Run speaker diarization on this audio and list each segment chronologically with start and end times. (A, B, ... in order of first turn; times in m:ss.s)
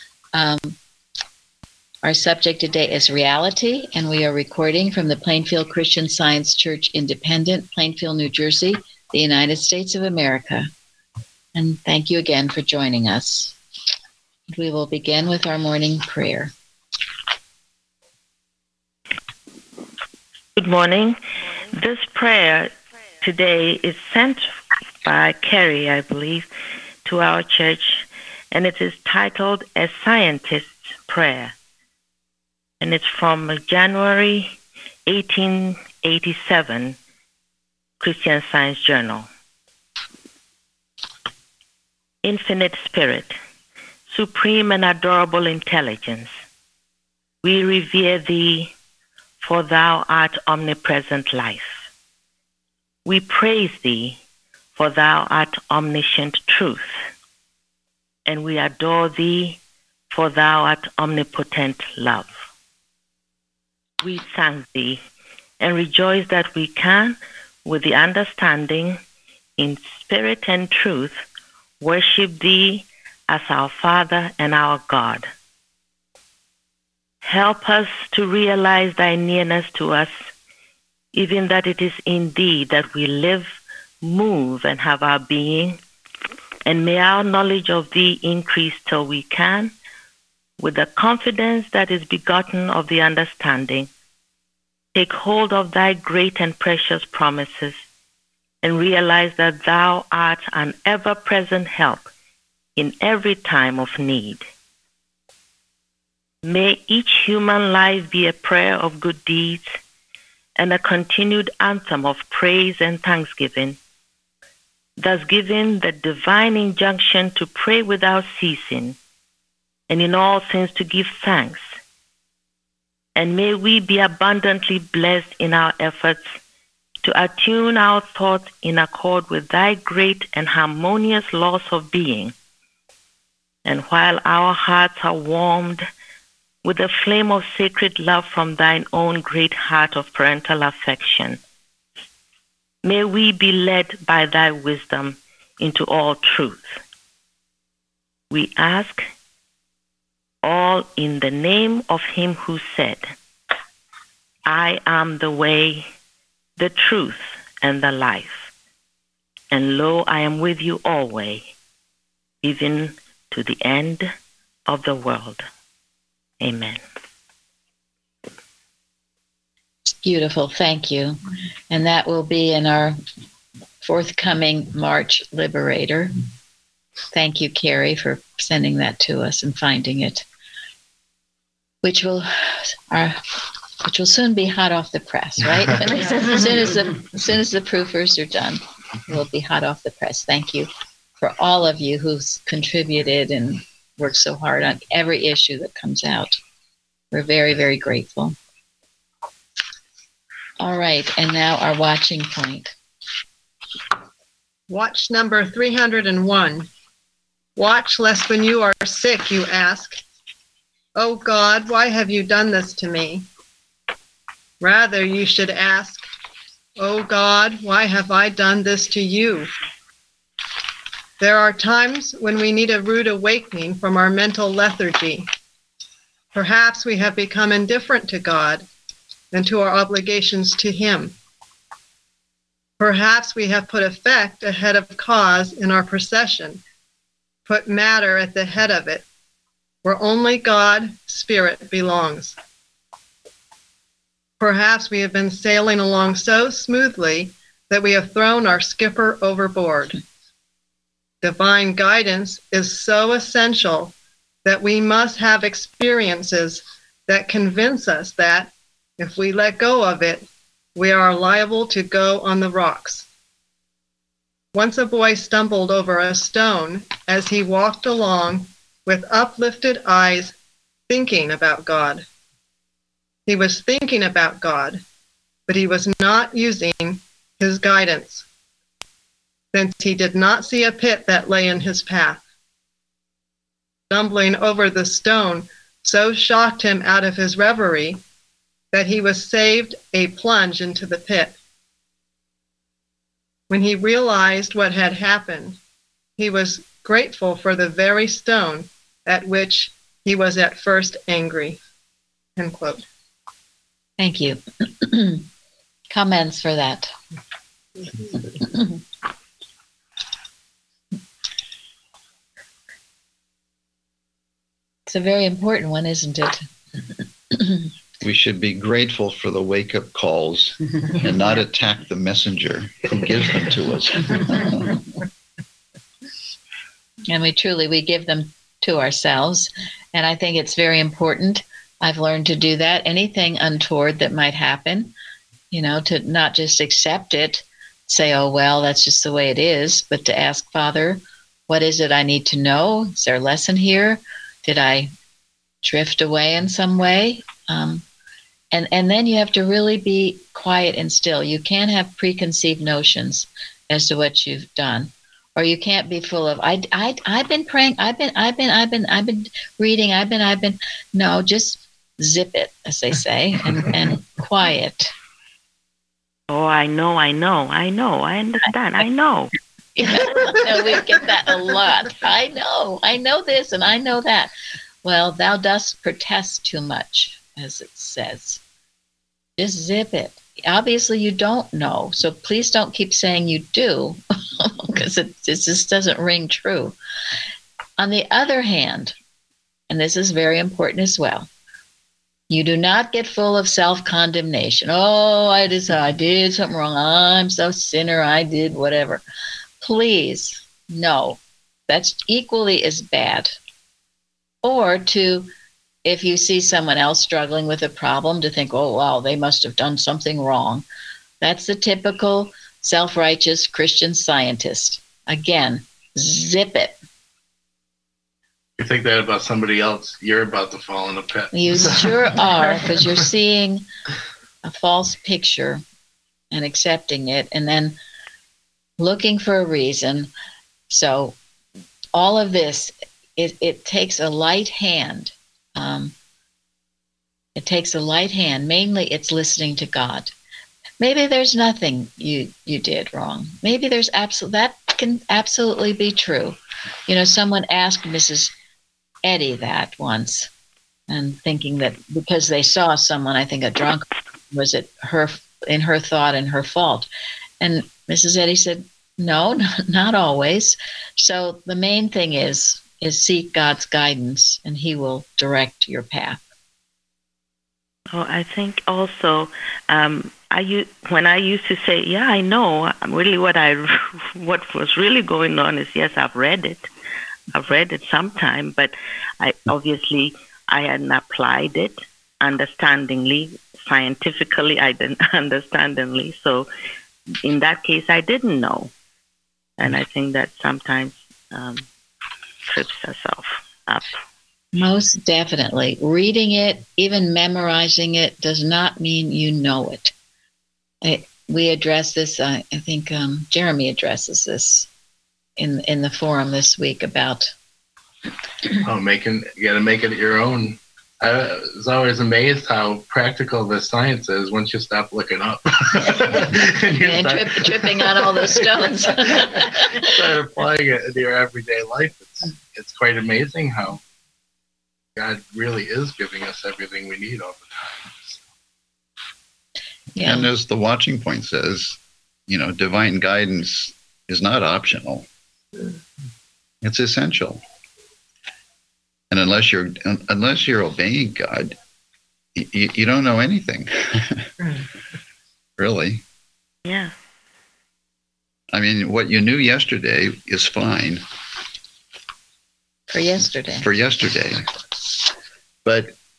0:00.3-0:00.8 A
0:02.0-0:10.7 A
0:11.6-0:13.6 A
0:14.5-0:16.5 A
0:20.6-0:21.2 B
0:21.7-0:26.5 B
0:27.0-0:31.5 B
0:32.8-0:34.5 B
0:35.1-0:37.0 B
0:38.0-0:39.3 B
0:42.2-0:43.4 B
0:44.1-0:46.3 B
0:47.4-0:48.7 B
0:49.4-0:51.8 B
0:53.0-0:54.2 B
0:54.8-0:57.0 B
0:58.3-0:59.6 B
1:00.1-1:02.4 B
1:04.0-1:05.0 B
1:05.6-1:09.0 B
1:09.6-1:11.2 B
1:11.8-1:15.3 B
1:17.2-1:20.3 B
1:21.1-1:25.8 B
1:26.7-1:29.7 B
1:30.6-1:33.9 B
1:34.9-1:37.8 B
1:38.6-1:42.1 B
1:42.8-1:44.4 B
1:46.4-1:49.8 B
1:50.6-1:53.8 B
1:55.0-1:59.0 B
1:59.9-2:01.6 B
2:03.2-2:06.4 B
2:07.0-2:12.3 B
2:13.6-2:15.9 B
2:16.6-2:21.4 B
2:22.8-2:26.8 B
2:28.3-2:29.0 B
2:30.4-2:33.1 B
2:34.5-2:35.9 B
2:36.6-2:38.5 B
2:39.5-2:41.5 B
2:42.4-2:44.1 B
2:44.7-2:45.4 B
2:46.4-2:46.8 B
2:49.9-2:51.2 A
2:51.7-2:53.0 A
2:53.8-2:56.1 A
2:57.1-3:00.3 A
3:01.8-3:03.2 A
3:03.8-3:10.7 A
3:11.2-3:16.4 A
3:17.1-3:18.4 A
3:20.6-3:22.7 A
3:24.7-3:26.7 C
3:27.6-3:30.0 C
3:31.0-3:33.3 C
3:34.6-3:36.1 C
3:36.8-3:39.5 C
3:41.2-3:45.3 C
3:46.3-3:48.7 C
3:49.3-3:51.2 C
3:52.8-3:56.6 C
3:57.5-3:59.1 C
3:59.8-4:02.4 C
4:04.4-4:10.0 C
4:11.2-4:13.9 C
4:14.4-4:23.1 C
4:24.5-4:30.4 C
4:30.9-4:32.0 C
4:33.3-4:34.8 C
4:35.5-4:38.2 C
4:39.5-4:42.2 C
4:43.9-4:48.0 C
4:48.7-4:51.4 C
4:53.5-4:55.6 C
4:56.2-5:01.6 C
5:02.4-5:02.8 C
5:04.0-5:05.3 A
5:05.9-5:06.9 A
5:08.3-5:08.8 A
5:14.9-5:16.5 A
5:17.3-5:17.7 A
5:18.0-5:24.8 D
5:27.1-5:34.9 A
5:35.5-5:44.9 A
5:45.6-5:47.8 A
5:48.5-6:04.9 A
6:06.3-6:09.3 B
6:09.8-6:14.3 A
6:14.8-6:18.4 A
6:19.4-6:26.8 A
6:27.8-6:29.0 A
6:29.7-6:31.3 A
6:32.3-6:39.0 A
6:39.6-6:43.4 A
6:44.4-6:45.3 A
6:45.8-6:50.6 A
6:51.2-6:56.8 A
6:58.6-7:02.8 E
7:01.3-7:03.7 A
7:04.4-7:05.6 A
7:06.3-7:07.8 A
7:08.8-7:10.1 A
7:10.7-7:11.2 A
7:11.9-7:15.9 A
7:17.4-7:20.1 A
7:20.8-7:28.3 A
7:29.0-7:30.3 A
7:30.9-7:36.9 A
7:37.4-7:46.2 A
7:47.9-7:56.7 B
7:57.3-8:06.5 B
8:07.2-8:08.7 B
8:09.6-8:11.7 B
8:12.5-8:14.0 B
8:14.6-8:19.9 A
8:20.8-8:24.7 A
8:25.4-8:27.3 A
8:28.6-8:43.8 E
8:36.8-8:39.9 A
8:45.0-8:48.2 E
8:50.0-8:50.3 A
8:50.0-8:55.1 D
8:56.6-8:57.4 D
8:59.1-9:01.6 D
9:02.4-9:04.3 D
9:05.6-9:06.0 D
9:06.7-9:06.9 B
9:08.5-9:11.0 D
9:12.9-9:13.7 A
9:13.6-9:14.5 D
9:15.6-9:16.0 D